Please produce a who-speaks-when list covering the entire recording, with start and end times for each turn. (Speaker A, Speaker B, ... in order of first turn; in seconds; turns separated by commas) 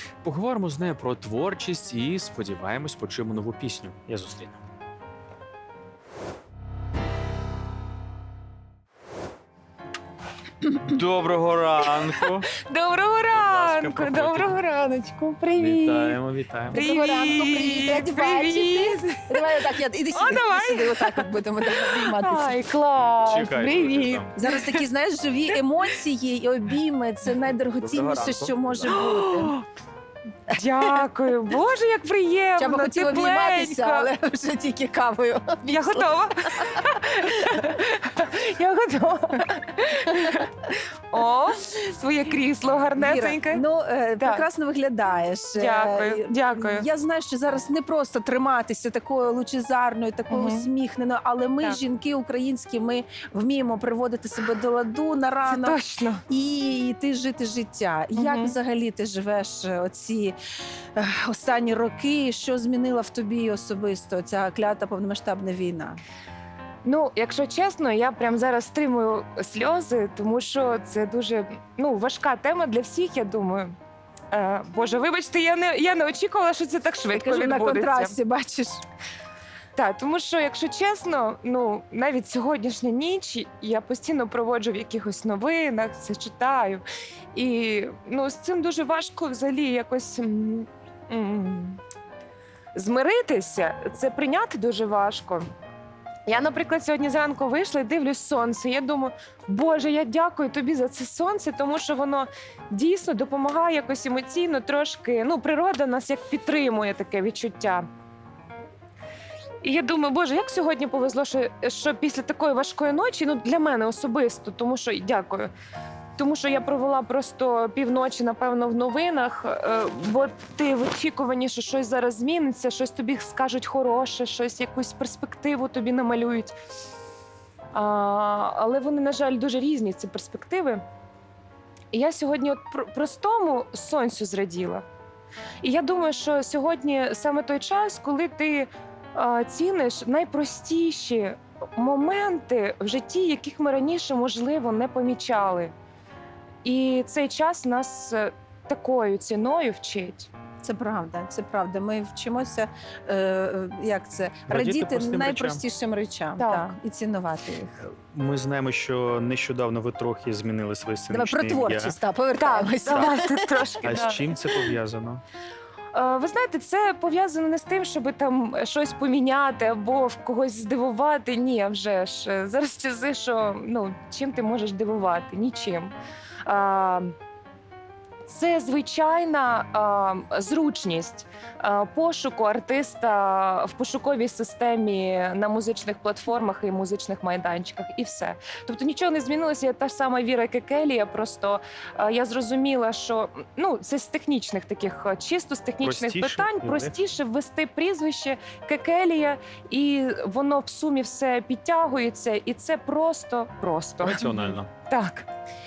Speaker A: 0.2-4.6, Speaker A: 10.7-12.5, Speaker B: 12.2-16.2, Speaker A: 13.3-14.6, Speaker A: 15.6-16.8, Speaker C: 16.7-22.6, Speaker B: 16.7-19.5, Speaker B: 20.1-24.8, Speaker A: 23.3-24.3, Speaker C: 24.4-29.6, Speaker A: 27.8-29.0, Speaker B: 28.8-29.7, Speaker B: 30.5-34.1, Speaker C: 32.6-37.6, Speaker B: 35.6-43.6, Speaker C: 43.0-60.4, Speaker B: 44.2-44.5, Speaker B: 45.5-46.9, Speaker B: 50.3-50.7, Speaker B: 55.5-56.2, Speaker B: 58.1-58.5, Speaker C: 61.0-66.0, Speaker B: 66.8-73.8, Speaker B: 74.3-78.2, Speaker C: 77.1-78.8, Speaker B: 79.8-91.8, Speaker B: 92.7-95.5, Speaker B: 96.2-107.8, Speaker B: 109.6-115.5, Speaker B: 116.2-126.5, Speaker B: 127.7-130.8, Speaker B: 131.9-134.8, Speaker B: 135.6-145.7, Speaker B: 146.6-150.3, Speaker C: 150.6-157.8, Speaker A: 154.5-155.6, Speaker B: 156.4-156.7, Speaker A: 157.8-162.0, Speaker C: 161.1-163.6, Speaker B: 162.3-164.2, Speaker A: 162.9-163.2, Speaker A: 163.8-165.2, Speaker B: 165.9-175.9, Speaker B: 176.4-177.1, Speaker B: 178.2-204.3, Speaker A: 195.8-196.9, Speaker A: 204.0-204.7, Speaker B: 204.9-205.2